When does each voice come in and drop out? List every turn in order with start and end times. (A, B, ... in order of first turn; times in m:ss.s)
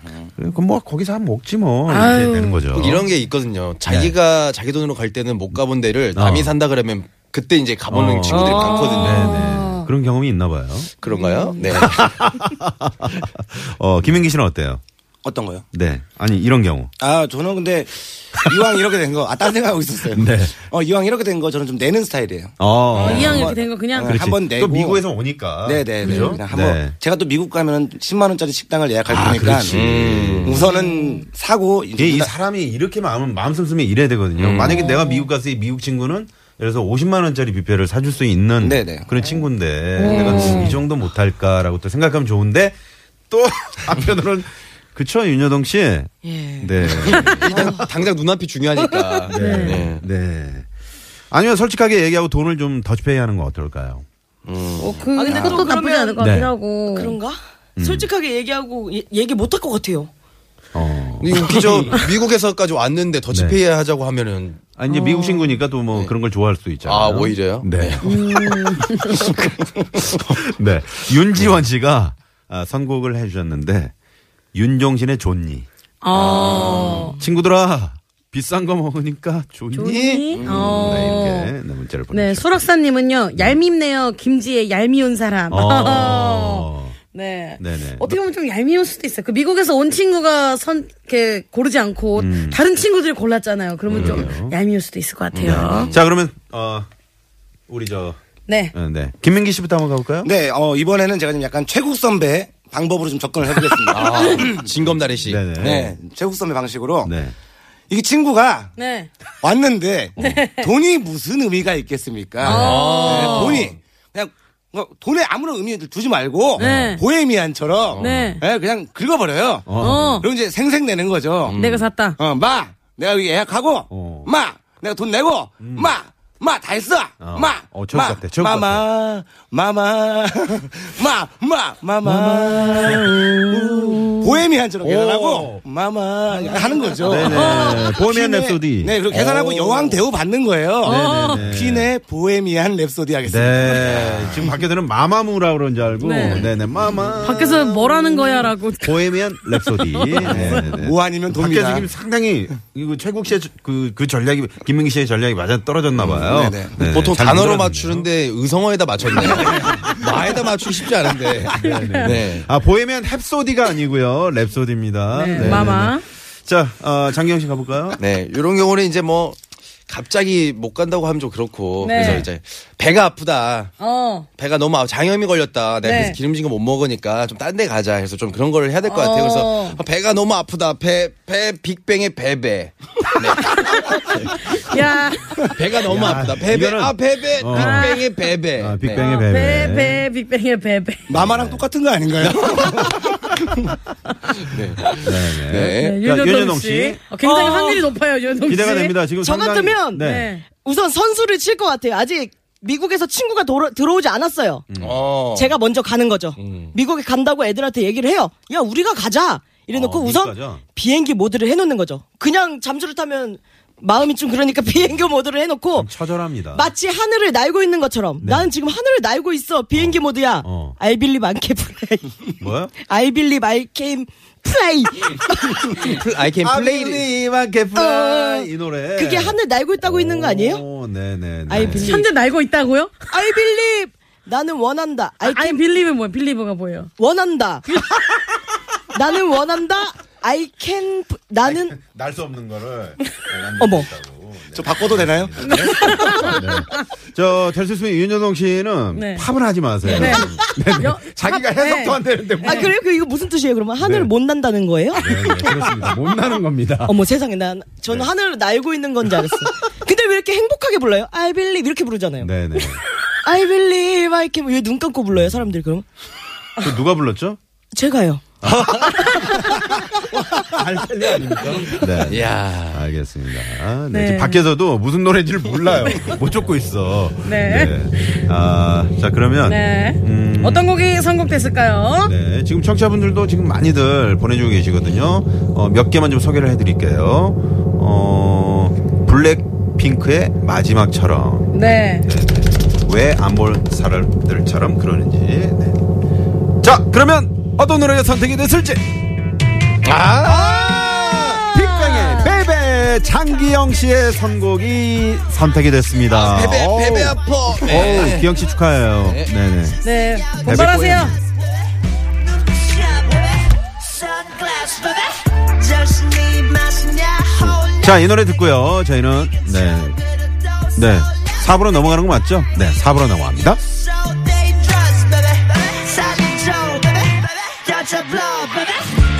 0:00.4-0:03.1 A
0:01.9-0:02.6 B
0:02.7-0:09.3 C
0:03.8-0:04.1 A
0:06.1-0:06.5 A
0:07.9-0:11.0 A
0:08.3-0:09.2 D
0:08.3-0:09.9 B
0:11.0-0:12.2 C
0:11.1-0:11.6 B
0:11.7-0:14.8 A
0:15.2-0:15.6 E
0:15.7-0:16.9 A
0:17.0-0:25.0 E
0:20.1-0:20.5 A
0:22.6-0:26.9 A
0:22.9-0:24.2 B
0:25.6-0:29.9 E
0:29.1-0:30.7 A
0:29.7-0:30.6 C
0:30.4-0:32.3 E
0:30.7-0:31.2 D
0:32.0-0:42.8 A
0:34.4-0:34.8 C
0:34.7-0:35.2 B
0:38.6-0:39.2 E
0:40.0-0:40.8 B
0:40.0-0:40.4 D
0:40.1-0:40.7 C
0:43.3-0:47.7 A
0:46.2-0:46.8 D
0:47.1-0:50.0 C
0:47.1-0:47.4 B
0:47.5-0:47.8 D
0:48.9-0:49.2 D
0:49.3-0:50.7 A
0:49.4-0:49.8 B
0:51.3-0:54.0 A
0:54.4-0:55.4 C
0:54.8-0:57.2 B
0:55.1-1:00.1 D
0:56.2-0:56.5 A
0:57.8-0:58.1 A
1:00.7-1:02.0 A
1:01.2-1:04.7 C
1:03.3-1:03.6 A
1:04.8-1:13.9 A
1:04.9-1:05.4 B
1:06.8-1:08.0 C
1:08.0-1:09.3 B
1:14.5-1:15.7 A
1:16.0-1:17.2 B
1:16.1-1:17.1 C
1:16.4-1:22.6 A
1:19.7-1:21.5 B
1:20.3-1:21.2 C
1:22.1-1:35.9 B
1:25.5-1:27.0 A
1:27.6-1:28.2 A
1:32.2-1:32.6 A
1:33.9-1:34.3 C
1:33.9-1:34.6 A
1:35.3-1:36.0 C
1:35.4-1:36.9 A
1:37.7-1:38.2 A
1:38.5-1:38.7 B
1:38.7-1:40.3 A
1:40.2-1:44.7 E
1:43.9-1:45.8 C
1:45.2-1:45.9 A
1:45.6-1:47.1 E
1:47.0-1:47.3 A
1:47.9-1:48.7 E
1:48.8-1:49.1 B
1:49.4-2:01.6 E
1:50.2-1:50.7 B
1:52.4-1:53.7 C
1:52.4-1:53.7 B
1:56.6-1:57.0 B
1:56.6-1:57.0 A
1:58.0-1:58.4 B
1:58.0-1:58.3 A
1:59.6-2:00.2 A
1:59.8-2:00.2 B
2:01.4-2:01.8 C
2:01.5-2:02.2 B
2:02.2-2:24.6 E
2:03.9-2:04.3 A
2:05.6-2:06.0 A
2:07.2-2:08.8 A
2:12.0-2:13.2 A
2:14.8-2:15.6 A
2:16.3-2:20.0 A
2:17.2-2:17.9 B
2:20.8-2:21.4 B
2:20.8-2:21.9 A
2:23.2-2:38.1 A
2:26.0-2:26.5 B
2:27.2-2:30.8 B
2:30.2-2:31.9 E
2:36.0-2:36.8 E
2:36.8-2:42.5 C
2:39.1-2:40.1 A
2:41.1-2:48.0 A
2:41.6-2:42.1 B
2:45.1-2:46.0 B
2:48.0-2:49.4 C
2:49.9-2:53.7 C
2:51.8-2:52.2 B
2:51.9-2:52.3 A
2:53.8-2:54.3 B
2:54.4-3:04.5 C
2:55.8-2:56.2 B
2:58.9-2:59.8 B
3:03.4-3:05.6 B
3:05.5-3:09.1 C
3:05.8-3:08.0 A
3:07.5-3:08.0 B
3:08.6-3:10.1 A
3:09.0-3:11.1 B
3:11.1-3:13.7 E
3:11.1-3:11.6 A
3:12.2-3:13.0 C
3:14.5-3:16.0 C
3:14.9-3:17.1 A
3:15.7-3:19.0 B
3:17.2-3:17.9 D
3:18.4-3:20.3 A
3:19.2-3:24.6 D
3:20.0-3:20.4 B
3:24.7-3:25.0 A
3:24.8-3:25.6 C
3:25.3-3:35.9 D
3:26.4-3:26.7 C
3:29.7-3:30.6 A
3:35.7-3:36.7 A
3:36.5-3:46.0 D
3:38.2-3:38.5 A
3:39.7-3:40.8 A
3:42.4-3:42.7 A
3:45.8-3:47.1 C
3:46.4-3:52.0 A
3:47.7-3:50.6 D
3:51.5-3:52.1 D
3:51.6-3:53.0 B
3:53.1-3:55.6 D
3:55.2-3:56.9 B
3:57.0-3:57.7 D
3:58.9-4:01.8 D
4:01.4-4:12.8 A
4:03.6-4:03.9 D
4:04.5-4:06.2 E
4:05.4-4:06.8 B
4:08.9-4:09.2 B
4:09.8-4:12.7 B
4:12.4-4:15.5 D
4:13.8-4:14.1 A
4:14.9-4:17.0 A
4:16.8-4:22.3 D
4:22.2-4:22.8 A
4:23.2-4:25.8 D
4:25.1-4:25.5 A
4:26.6-4:27.4 A
4:27.7-4:28.2 D
4:28.4-4:40.8 A
4:32.0-4:32.8 C
4:33.9-4:34.4 B
4:35.9-4:36.2 B
4:37.2-4:38.2 B
4:39.5-4:42.1 B
4:42.0-4:55.8 A
4:51.5-4:52.1 B
4:56.6-4:58.9 A
4:59.8-5:01.4 C
5:00.2-5:09.8 A
5:01.5-5:02.3 B
5:06.1-5:08.3 C
5:09.0-5:09.3 C
5:09.8-5:11.2 B
5:09.8-5:10.6 F
5:10.4-5:11.2 A
5:12.4-5:17.8 F
5:17.4-5:20.0 A
5:20.0-5:20.8 F
5:20.7-5:23.6 A
5:23.9-5:28.9 F